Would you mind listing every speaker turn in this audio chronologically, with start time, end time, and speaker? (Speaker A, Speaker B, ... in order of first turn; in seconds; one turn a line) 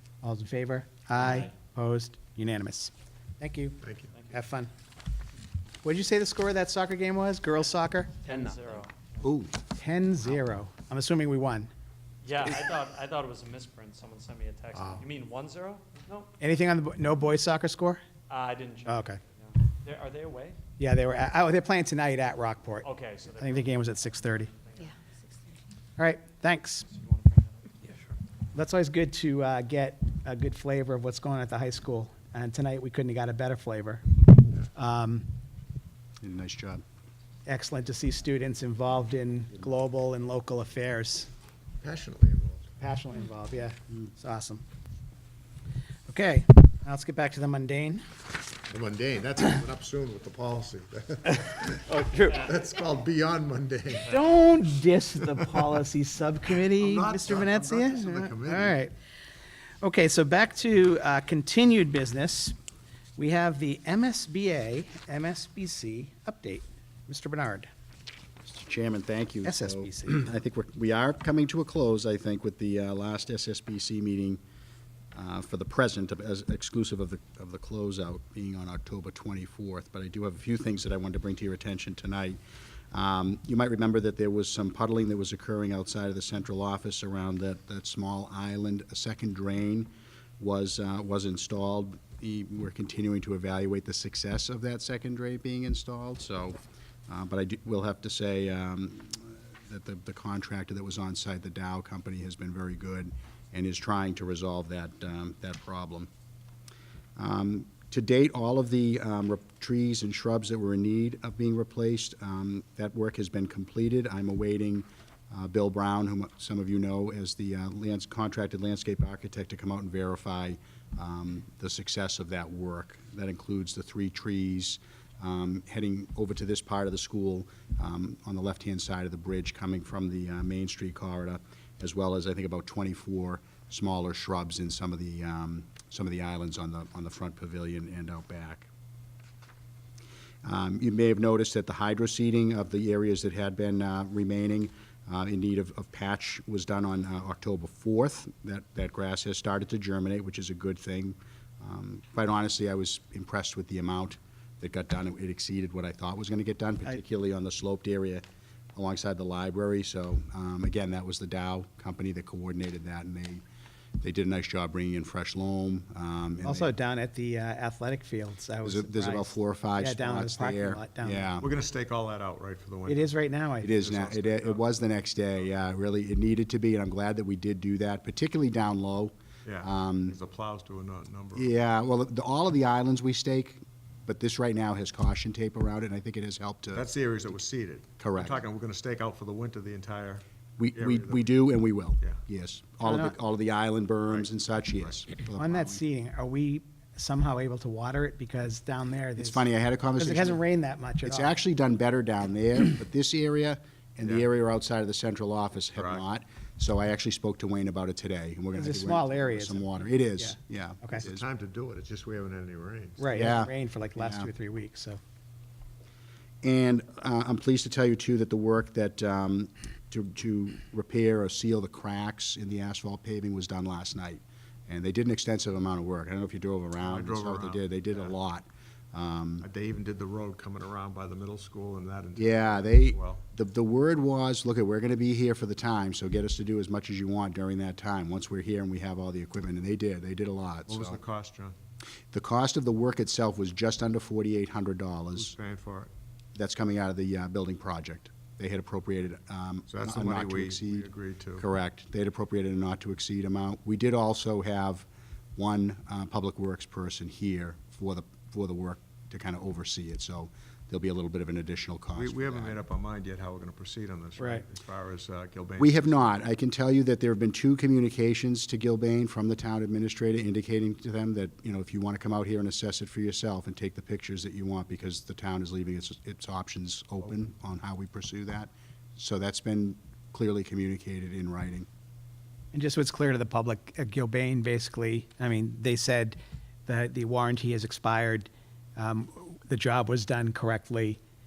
Speaker A: 0.2-3.8
Speaker B: 3.8-4.1
Speaker C: 4.1-4.4
Speaker A: 4.3-4.7
Speaker A: 5.8-8.3
Speaker C: 8.2-9.2
Speaker D: 9.2-9.5
Speaker A: 9.7-11.7
Speaker C: 12.2-16.3
Speaker A: 16.4-18.0
Speaker C: 18.3-20.6
Speaker A: 18.9-19.2
Speaker A: 20.8-24.5
Speaker C: 22.8-24.9
Speaker A: 26.0-26.9
Speaker C: 26.9-28.1
Speaker A: 28.5-34.0
Speaker A: 34.7-35.3
Speaker D: 36.2-36.8
Speaker A: 37.5-41.3
Speaker B: 41.8-42.7
Speaker A: 42.8-44.6
Speaker A: 46.1-48.0
Speaker B: 48.7-54.2
Speaker C: 52.2-52.5
Speaker A: 54.0-58.9
Speaker B: 56.7-58.8
Speaker A: 59.8-62.5
Speaker A: 63.1-67.7
Speaker D: 68.4-74.4
Speaker A: 69.4-70.3
Speaker D: 75.1-82.4
Speaker D: 82.9-106.1
Speaker D: 107.2-138.7
Speaker D: 140.4-158.2
Speaker D: 158.8-163.4
Speaker D: 164.0-166.7
Speaker A: 166.4-171.3
Speaker D: 168.6-171.5
Speaker B: 171.4-173.1
Speaker A: 172.9-173.7
Speaker D: 173.6-180.2
Speaker B: 173.7-174.8
Speaker B: 179.4-181.5
Speaker D: 181.3-186.8
Speaker B: 186.7-190.2
Speaker D: 188.0-188.4
Speaker D: 190.6-195.8
Speaker B: 190.7-191.3
Speaker A: 192.8-193.2
Speaker B: 194.1-195.0
Speaker A: 195.3-199.4
Speaker D: 199.2-200.4
Speaker A: 200.0-201.3
Speaker D: 201.0-211.2
Speaker B: 205.7-206.0
Speaker A: 208.5-211.0
Speaker B: 211.0-213.2
Speaker A: 213.0-215.0
Speaker D: 213.1-214.3
Speaker D: 216.4-229.5
Speaker B: 226.8-228.1
Speaker B: 229.4-233.2
Speaker D: 232.2-241.0
Speaker B: 240.7-241.6
Speaker D: 242.1-245.3
Speaker B: 245.2-245.9
Speaker D: 246.3-262.6
Speaker B: 249.7-251.5
Speaker B: 261.9-266.1
Speaker A: 264.2-264.4
Speaker D: 265.6-281.7
Speaker A: 282.5-291.0